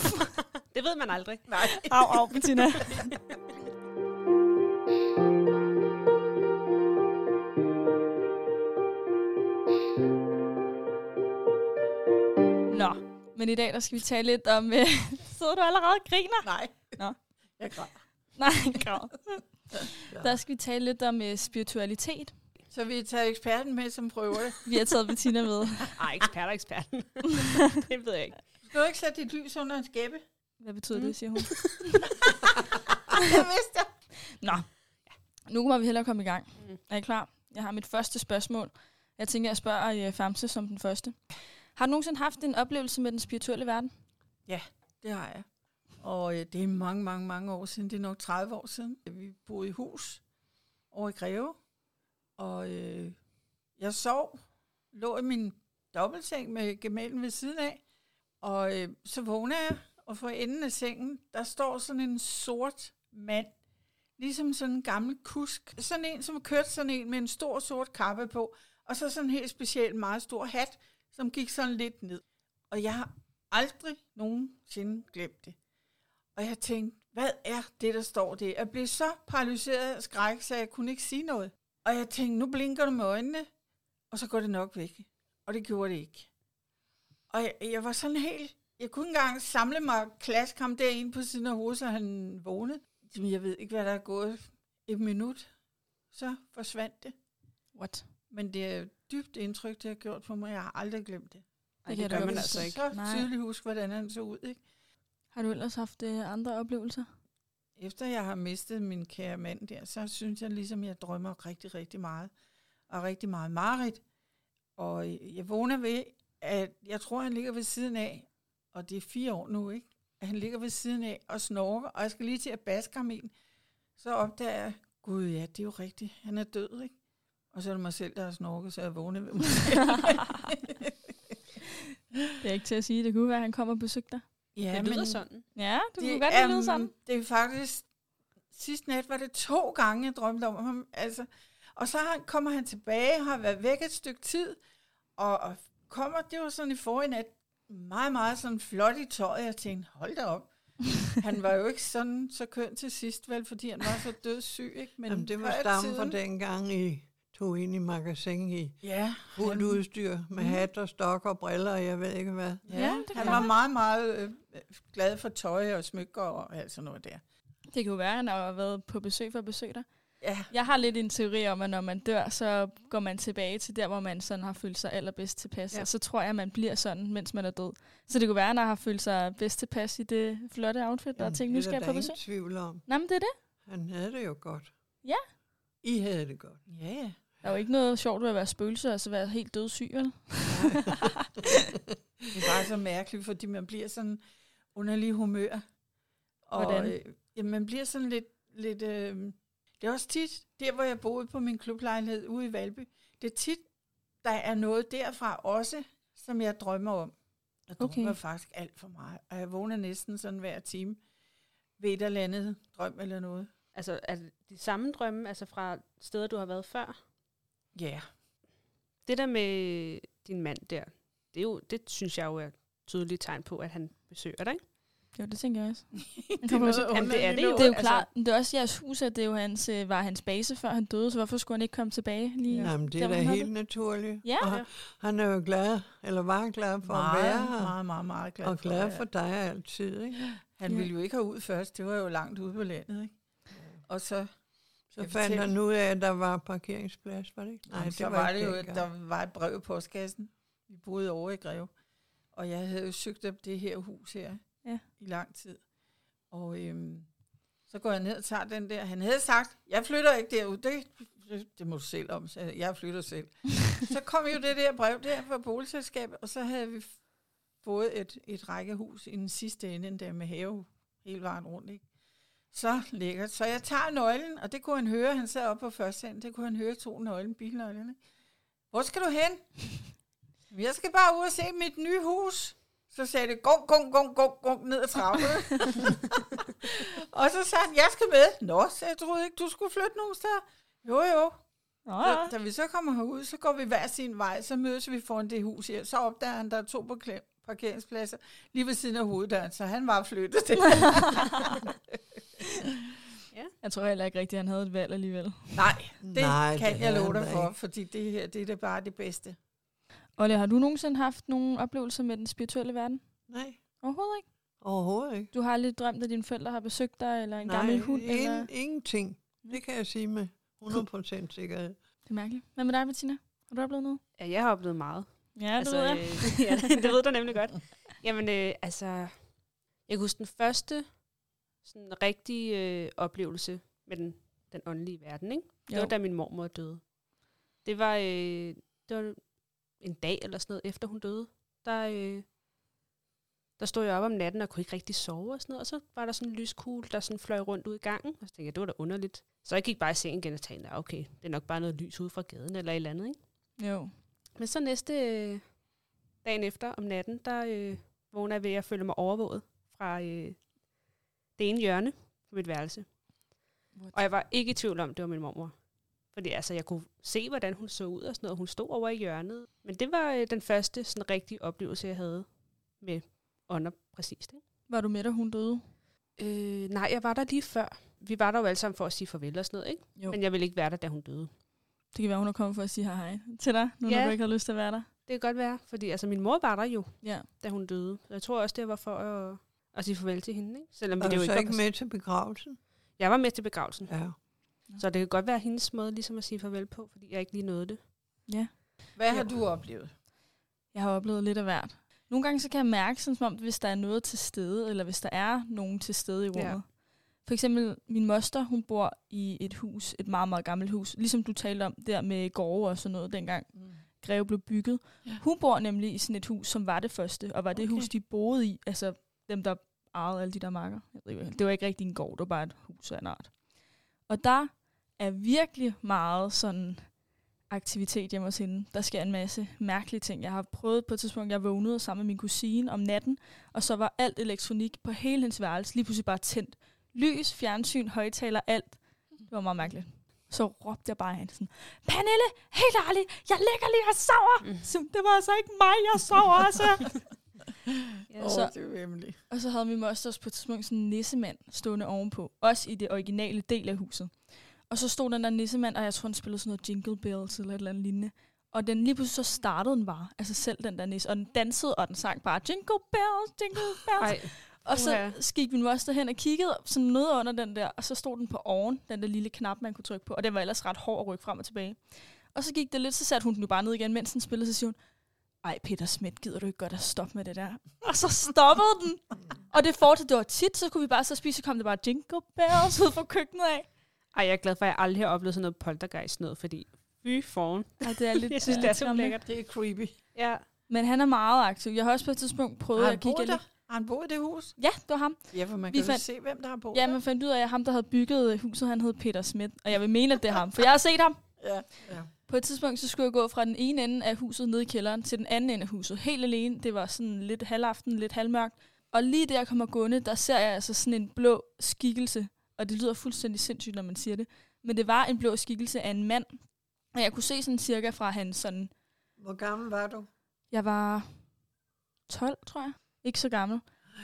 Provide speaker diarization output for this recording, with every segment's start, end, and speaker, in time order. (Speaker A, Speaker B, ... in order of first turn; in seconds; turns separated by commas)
Speaker A: 0.7-1.5, Speaker B: 1.5-2.4, Speaker C: 1.9-3.1, Speaker C: 12.7-17.2, Speaker B: 16.4-17.0, Speaker B: 17.6-18.8, Speaker C: 18.4-22.3, Speaker B: 22.7-24.6, Speaker C: 24.6-26.0, Speaker A: 26.0-28.4, Speaker B: 28.6-30.2, Speaker C: 30.6-32.0, Speaker A: 30.9-31.8, Speaker B: 32.1-33.9, Speaker C: 34.3-34.8, Speaker C: 35.5-41.2, Speaker C: 41.8-43.9, Speaker B: 44.5-45.5, Speaker B: 46.0-50.2, Speaker B: 50.9-51.6, Speaker B: 52.4-53.2, Speaker B: 53.8-54.4, Speaker B: 54.9-57.8, Speaker B: 58.4-63.5, Speaker B: 64.2-75.6, Speaker B: 76.4-83.5, Speaker B: 84.1-86.3, Speaker B: 87.3-95.5, Speaker B: 96.1-97.2, Speaker C: 97.8-98.1, Speaker B: 98.3-101.5, Speaker A: 101.8-102.8, Speaker C: 101.9-103.3, Speaker B: 102.1-104.6, Speaker D: 102.1-102.5, Speaker C: 105.3-107.1, Speaker B: 107.8-112.3, Speaker B: 112.9-114.0, Speaker B: 114.8-123.3, Speaker B: 124.0-126.9, Speaker B: 127.5-131.3, Speaker C: 130.0-130.2, Speaker C: 132.4-134.2, Speaker B: 134.6-135.2, Speaker A: 134.7-135.5, Speaker C: 135.6-136.9, Speaker B: 136.0-137.9, Speaker B: 138.5-144.6, Speaker B: 145.2-156.2, Speaker D: 155.1-158.8, Speaker B: 158.8-159.8, Speaker D: 159.3-162.9, Speaker B: 162.7-167.2, Speaker C: 162.7-163.5, Speaker C: 167.7-169.9, Speaker B: 170.2-170.5, Speaker C: 170.5-183.3, Speaker D: 181.2-183.1, Speaker D: 183.7-184.8, Speaker B: 185.8-187.2, Speaker D: 186.2-186.6, Speaker C: 187.4-191.4, Speaker D: 190.5-191.0, Speaker B: 192.3-194.2, Speaker B: 194.7-195.6, Speaker B: 196.5-203.7, Speaker C: 196.6-196.9, Speaker B: 204.2-207.1, Speaker B: 207.7-211.0, Speaker C: 207.8-208.2, Speaker B: 211.8-213.5, Speaker A: 213.7-217.0, Speaker B: 217.8-218.1, Speaker A: 219.1-224.6, Speaker C: 225.1-233.6, Speaker B: 226.0-227.7, Speaker A: 226.9-228.1, Speaker D: 232.6-237.7, Speaker C: 234.2-234.5, Speaker A: 234.4-234.7, Speaker B: 236.8-239.1, Speaker D: 238.4-240.2, Speaker B: 240.4-243.1, Speaker D: 243.5-243.8, Speaker B: 243.8-244.3, Speaker B: 244.9-245.5, Speaker D: 245.0-248.8, Speaker B: 247.7-251.7, Speaker B: 252.3-254.4, Speaker B: 255.0-255.6, Speaker B: 256.3-257.1, Speaker B: 257.7-267.0, Speaker B: 267.6-271.8, Speaker B: 272.5-278.0, Speaker B: 278.7-279.7, Speaker B: 280.5-291.4, Speaker C: 291.9-292.3, Speaker B: 292.0-301.7, Speaker C: 303.6-305.7, Speaker B: 305.5-309.4, Speaker D: 306.0-307.5, Speaker C: 310.2-314.6, Speaker D: 313.3-313.6, Speaker D: 314.6-315.3, Speaker C: 315.3-318.5, Speaker D: 317.4-321.8, Speaker C: 322.1-324.0, Speaker A: 324.2-337.0, Speaker C: 325.4-326.6, Speaker A: 337.6-342.2, Speaker A: 343.6-353.2, Speaker C: 353.6-353.9, Speaker A: 354.4-355.7, Speaker A: 356.2-360.5, Speaker A: 361.4-363.0, Speaker C: 363.7-364.0, Speaker A: 363.9-374.4, Speaker C: 374.7-375.7, Speaker A: 376.2-381.3, Speaker C: 381.9-384.9, Speaker A: 383.9-384.2, Speaker A: 385.0-391.6, Speaker C: 387.0-387.3, Speaker D: 391.0-392.6, Speaker A: 393.0-397.8, Speaker D: 393.9-394.2, Speaker C: 398.3-399.3, Speaker B: 398.9-399.9, Speaker C: 400.7-447.0, Speaker B: 417.5-417.9, Speaker A: 444.4-444.7, Speaker A: 448.1-448.4, Speaker B: 448.2-449.1, Speaker C: 448.2-448.5, Speaker C: 449.3-474.8, Speaker A: 464.0-465.2, Speaker C: 475.4-483.7, Speaker A: 484.1-489.4, Speaker C: 487.8-489.2, Speaker B: 489.2-489.9, Speaker A: 490.1-490.4, Speaker C: 490.7-493.4, Speaker B: 492.8-494.6, Speaker C: 494.6-496.1, Speaker B: 495.3-497.0, Speaker C: 496.7-501.4, Speaker B: 501.4-502.1, Speaker C: 502.2-518.7, Speaker D: 519.2-520.1, Speaker C: 520.5-521.3, Speaker C: 522.1-523.6